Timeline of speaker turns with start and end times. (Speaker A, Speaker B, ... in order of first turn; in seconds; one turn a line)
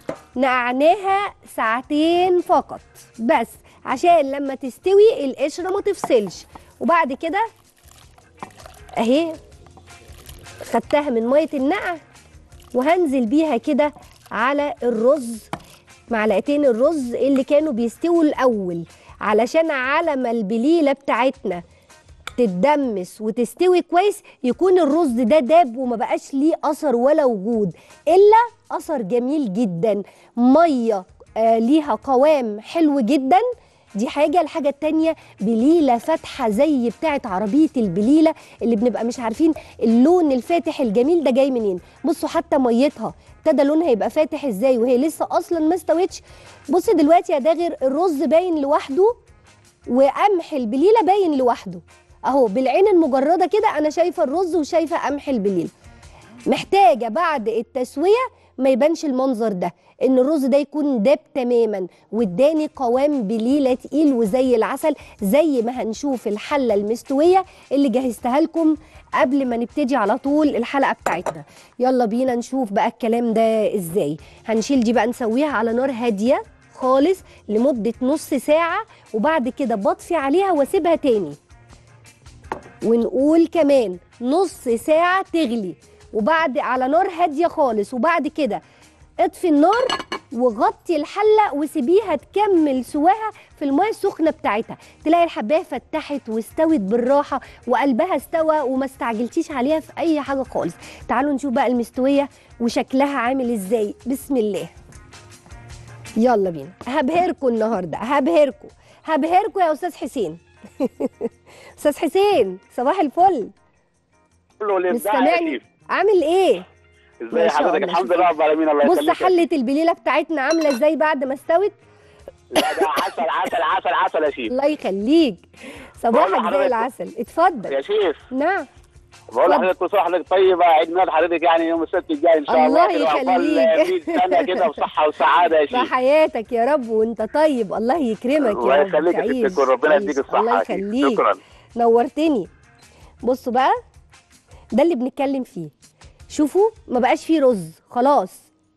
Speaker A: 0.4-7.5
Speaker A: 9.0-9.4
Speaker A: 10.7-12.0
Speaker A: 12.8-15.5
Speaker A: 16.1-21.6
Speaker A: 22.4-33.4
Speaker A: 34.0-49.1
Speaker A: 49.9-55.7
Speaker A: 56.5-81.4
Speaker A: 82.8-88.6
Speaker A: 89.2-104.7
Speaker A: 106.2-113.5
Speaker B: 114.6-115.6
Speaker A: 114.9-116.7
Speaker B: 117.2-119.3
Speaker A: 117.3-118.3
Speaker A: 118.8-121.8
Speaker B: 122.5-124.5
Speaker A: 124.5-125.5
Speaker A: 126.0-127.7
Speaker B: 126.1-126.9
Speaker B: 127.7-128.2
Speaker A: 128.3-128.7
Speaker B: 129.3-135.9
Speaker A: 132.5-134.9
Speaker A: 135.7-141.2
Speaker B: 138.4-141.4
Speaker A: 141.8-142.5
Speaker A: 143.2-143.8
Speaker A: 144.8-145.7
Speaker A: 146.3-148.4